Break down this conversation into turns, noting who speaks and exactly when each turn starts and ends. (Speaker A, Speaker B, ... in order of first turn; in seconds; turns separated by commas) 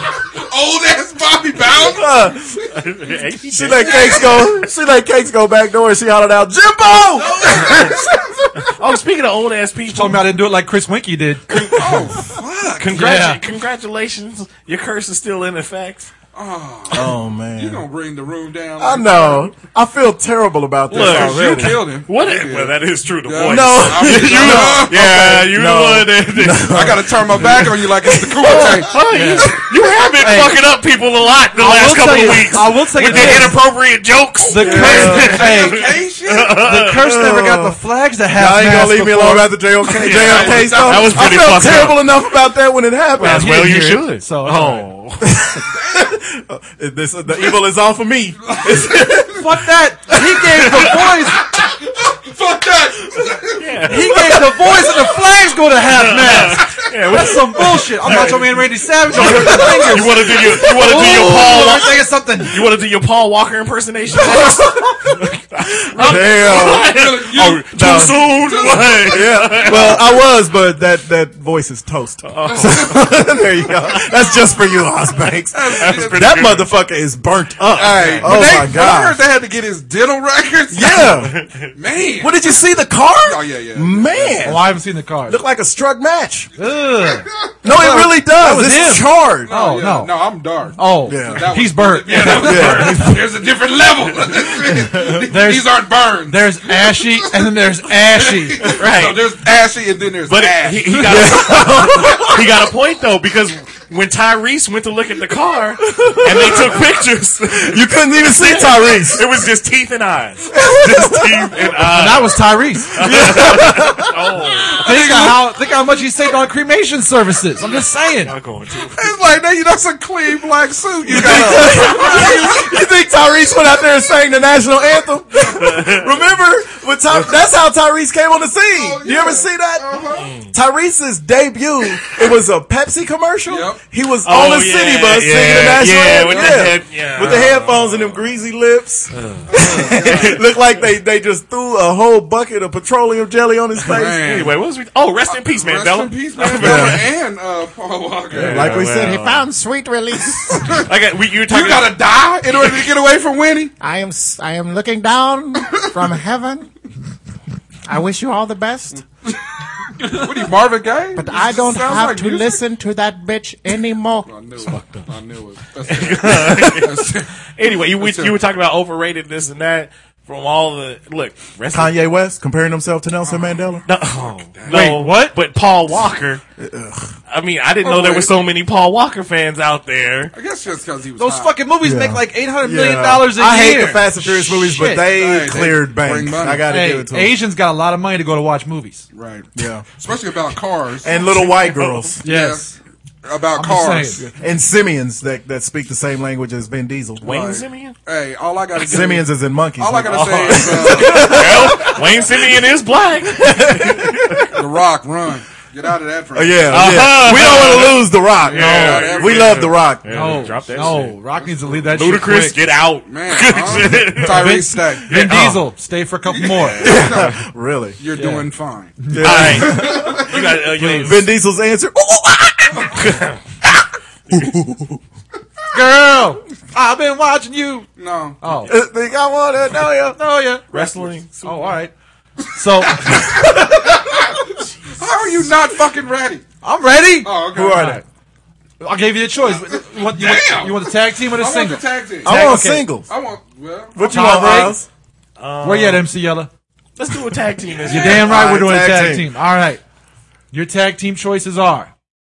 Speaker A: 0.3-2.1, Speaker B: 1.7-2.7, Speaker C: 2.7-4.6, Speaker B: 3.5-8.6, Speaker A: 3.8-4.4, Speaker A: 7.2-8.2, Speaker C: 7.5-7.8, Speaker C: 8.7-10.3, Speaker D: 9.9-11.4, Speaker C: 11.5-12.2, Speaker A: 11.7-13.1, Speaker C: 12.8-16.1, Speaker D: 12.9-13.4, Speaker A: 16.3-19.5, Speaker B: 16.9-17.9, Speaker B: 18.8-21.9, Speaker C: 20.9-37.2, Speaker A: 20.9-25.3, Speaker B: 23.4-28.8, Speaker A: 26.7-29.0, Speaker D: 29.1-29.6, Speaker D: 30.2-30.5, Speaker D: 31.6-33.6, Speaker B: 33.0-33.5, Speaker A: 34.4-36.6, Speaker D: 34.5-35.9, Speaker B: 34.6-35.4, Speaker D: 36.6-39.6, Speaker B: 37.0-37.8, Speaker B: 38.3-43.6, Speaker C: 39.9-42.1, Speaker A: 40.0-41.4, Speaker D: 43.2-44.9, Speaker C: 43.2-45.3, Speaker B: 45.2-49.5, Speaker A: 45.7-46.1, Speaker A: 48.5-49.3, Speaker D: 49.3-51.4, Speaker B: 50.1-50.5, Speaker A: 51.4-53.7, Speaker C: 53.6-54.3, Speaker D: 53.9-62.6, Speaker C: 55.9-70.2, Speaker B: 59.1-60.0, Speaker B: 64.2-65.0, Speaker B: 65.9-67.0, Speaker A: 66.1-70.0, Speaker B: 67.7-68.3, Speaker B: 69.1-79.2, Speaker C: 72.2-73.2, Speaker A: 75.5-76.4, Speaker C: 75.7-76.7, Speaker A: 77.7-81.2, Speaker C: 78.0-78.4, Speaker B: 80.7-81.4, Speaker C: 81.2-81.7, Speaker A: 81.7-82.5, Speaker B: 82.2-84.7, Speaker A: 83.2-84.5, Speaker D: 84.4-85.4, Speaker B: 85.3-86.5, Speaker D: 86.6-90.2, Speaker A: 87.0-88.1, Speaker B: 87.6-89.5, Speaker A: 89.5-101.3, Speaker D: 90.8-93.1, Speaker B: 91.1-91.5, Speaker B: 92.2-93.2, Speaker C: 92.3-92.9, Speaker B: 94.6-95.3, Speaker D: 95.3-98.6, Speaker C: 98.7-99.3, Speaker C: 100.3-115.3, Speaker B: 101.0-102.7, Speaker B: 105.8-106.9, Speaker B: 107.5-109.3, Speaker B: 110.5-111.6, Speaker D: 111.8-112.9, Speaker B: 113.0-114.2, Speaker D: 114.8-118.3, Speaker A: 114.9-115.3, Speaker C: 118.2-119.1, Speaker A: 118.9-122.8, Speaker B: 121.1-144.4, Speaker C: 121.2-122.4, Speaker C: 125.5-126.1, Speaker A: 128.7-130.3, Speaker C: 130.2-130.5, Speaker A: 133.5-133.8, Speaker C: 134.2-138.3, Speaker A: 136.1-136.8, Speaker C: 139.1-140.4, Speaker A: 139.5-140.4, Speaker A: 143.9-144.6, Speaker C: 143.9-147.1, Speaker A: 145.2-148.8, Speaker B: 146.5-147.1, Speaker C: 148.3-149.5, Speaker B: 148.3-149.2, Speaker E: 148.9-150.6, Speaker A: 150.4-150.8, Speaker C: 150.6-152.0, Speaker A: 151.4-153.7, Speaker C: 152.6-152.9, Speaker E: 153.8-156.7, Speaker A: 155.6-156.0, Speaker E: 157.9-159.0, Speaker A: 158.9-159.4, Speaker A: 160.0-162.6, Speaker E: 161.2-164.3, Speaker A: 164.2-168.4, Speaker C: 164.7-165.0, Speaker C: 165.9-172.0, Speaker B: 171.7-173.9, Speaker A: 173.2-173.6, Speaker C: 173.9-176.4, Speaker A: 174.1-174.9, Speaker D: 174.7-175.4, Speaker B: 176.6-177.1, Speaker C: 177.3-180.3, Speaker A: 177.8-178.3, Speaker A: 180.3-181.6, Speaker D: 181.2-185.1, Speaker B: 181.8-187.4, Speaker A: 184.9-186.7, Speaker D: 186.7-189.1, Speaker A: 189.1-194.3, Speaker B: 189.6-189.9, Speaker B: 191.0-192.2, Speaker D: 192.2-192.8, Speaker D: 193.6-194.2, Speaker B: 194.2-197.3, Speaker C: 197.2-198.0, Speaker A: 197.2-201.9, Speaker B: 198.8-202.2, Speaker C: 200.1-204.5, Speaker B: 203.3-204.5, Speaker A: 204.5-209.7, Speaker B: 206.3-210.4, Speaker C: 206.7-211.2, Speaker D: 208.6-209.1, Speaker D: 210.1-212.6, Speaker A: 210.7-211.8, Speaker C: 211.8-214.6, Speaker A: 213.1-215.1, Speaker D: 214.2-216.9, Speaker C: 215.1-215.6, Speaker A: 216.3-217.4, Speaker B: 216.8-218.0, Speaker A: 218.0-220.4, Speaker D: 218.2-218.5, Speaker D: 219.0-219.8, Speaker B: 219.1-220.4, Speaker C: 219.2-221.3, Speaker D: 220.8-221.2, Speaker B: 221.0-225.0, Speaker C: 223.0-223.4, Speaker D: 225.7-227.9, Speaker A: 228.0-228.4, Speaker D: 228.4-228.7, Speaker B: 228.7-230.2, Speaker D: 230.2-230.7, Speaker C: 230.7-231.7, Speaker A: 230.7-231.2, Speaker D: 231.4-231.9, Speaker D: 232.6-233.2, Speaker A: 232.9-234.4, Speaker A: 235.0-236.4, Speaker D: 236.6-238.0, Speaker A: 237.2-238.0, Speaker B: 237.5-238.0, Speaker D: 238.8-242.9, Speaker A: 239.5-242.6, Speaker B: 242.2-243.1, Speaker A: 243.1-244.7, Speaker B: 243.9-244.9, Speaker D: 244.0-244.8, Speaker C: 245.4-246.1, Speaker D: 245.6-246.5, Speaker C: 247.0-248.4, Speaker A: 247.8-248.2, Speaker D: 247.9-249.8, Speaker B: 248.1-249.3, Speaker D: 250.5-251.9